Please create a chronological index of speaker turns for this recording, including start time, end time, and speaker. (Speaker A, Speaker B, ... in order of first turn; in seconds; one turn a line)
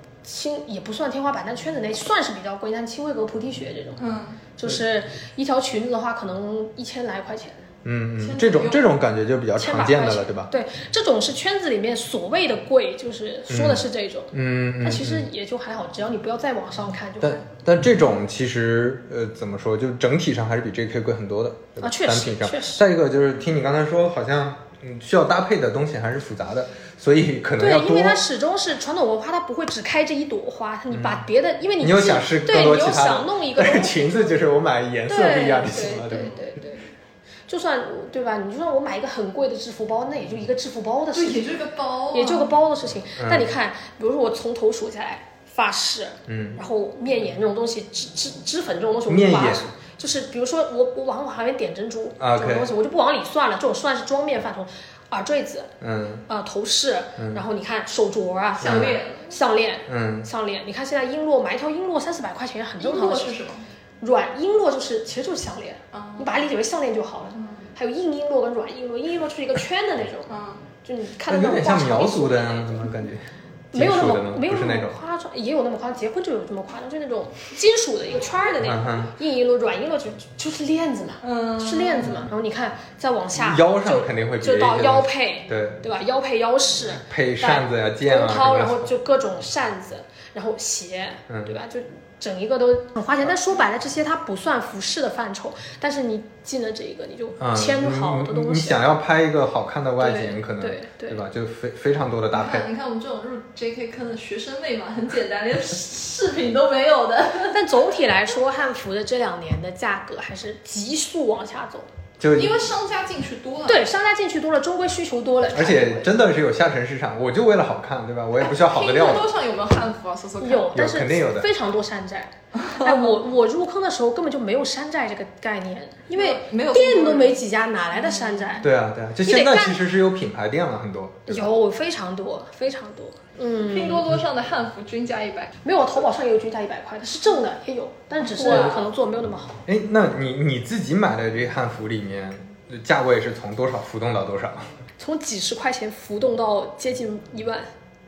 Speaker A: 0.2-4.0
Speaker B: 4.0-4.4
Speaker A: 4.6-7.7
Speaker C: 7.8-10.5
Speaker B: 8.2-8.9
Speaker A: 9.6-17.5
Speaker C: 13.5-15.3
Speaker C: 17.2-28.2
Speaker A: 21.8-22.9
Speaker A: 27.6-34.5
Speaker C: 30.9-31.3
Speaker C: 31.8-36.4
Speaker A: 35.1-36.9
Speaker B: 36.1-36.4
Speaker A: 37.5-41.5
Speaker B: 41.1-42.5
Speaker A: 42.1-55.7
Speaker C: 43.2-43.5
Speaker C: 46.3-46.6
Speaker C: 49.1-49.7
Speaker C: 52.2-52.7
Speaker C: 55.8-56.2
Speaker A: 56.3-63.3
Speaker C: 57.2-57.4
Speaker B: 58.6-59.3
Speaker C: 58.6-59.0
Speaker C: 59.9-60.3
Speaker B: 62.8-63.6
Speaker A: 64.0-70.3
Speaker B: 65.9-66.4
Speaker B: 67.3-67.7
Speaker B: 70.3-70.7
Speaker A: 70.8-72.9
Speaker C: 71.3-75.0
Speaker A: 73.7-98.9
Speaker C: 78.6-79.1
Speaker B: 81.2-82.3
Speaker C: 83.4-85.8
Speaker C: 87.1-88.9
Speaker C: 91.3-91.6
Speaker C: 97.4-102.7
Speaker A: 100.0-101.2
Speaker B: 102.3-107.7
Speaker A: 107.5-111.9
Speaker C: 112.2-112.6
Speaker B: 112.3-113.9
Speaker A: 113.7-116.1
Speaker C: 115.5-119.3
Speaker B: 118.4-120.8
Speaker A: 120.4-128.7
Speaker C: 120.7-121.5
Speaker B: 122.6-123.2
Speaker B: 126.1-127.4
Speaker B: 127.9-128.6
Speaker C: 128.6-131.5
Speaker A: 129.2-129.8
Speaker A: 131.3-134.1
Speaker B: 133.6-135.6
Speaker A: 135.6-139.6
Speaker B: 138.3-138.9
Speaker C: 139.7-144.7
Speaker A: 145.0-147.7